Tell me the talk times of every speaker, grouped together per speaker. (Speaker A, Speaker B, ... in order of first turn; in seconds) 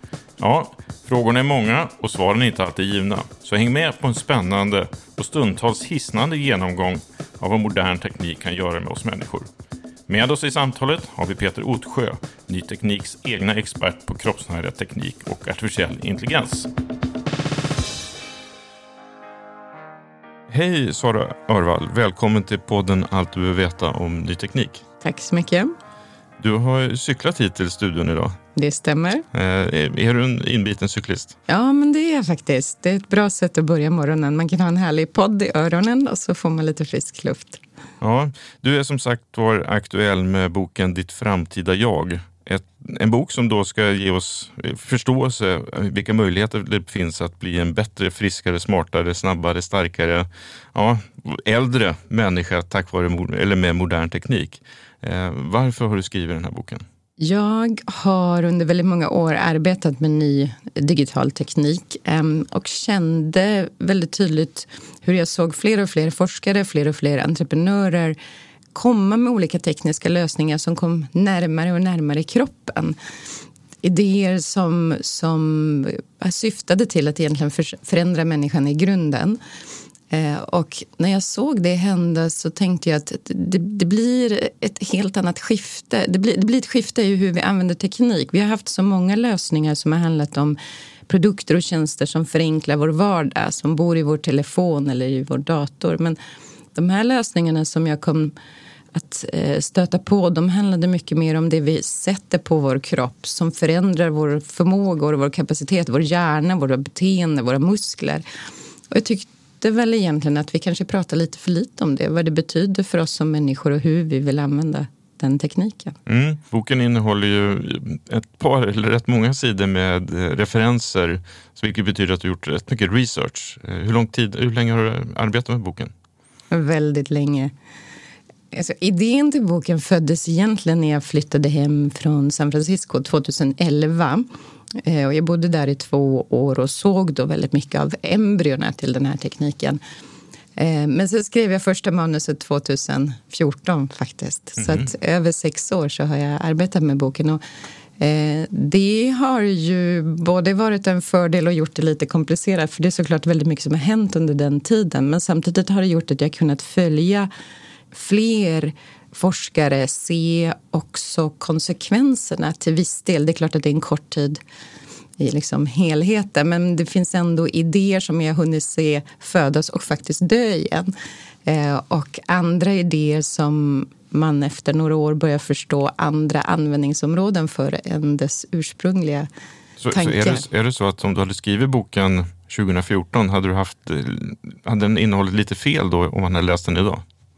Speaker A: 0.4-9.5, 10.1-16.7, 20.5-24.8, 26.4-28.4, 29.3-31.4, 38.0-56.8, 116.1-125.9, 179.8-187.0
Speaker B: 25.0-25.7, 28.6-29.2, 31.5-37.6, 57.2-68.2, 68.7-73.0, 73.8-79.4, 80.1-96.2, 96.8-98.3, 98.9-108.2, 108.9-116.0, 126.5-127.5, 128.5-139.8, 140.6-147.4, 148.0-157.3, 157.9-164.4, 165.2-170.9, 171.5-179.3, 179.9-180.4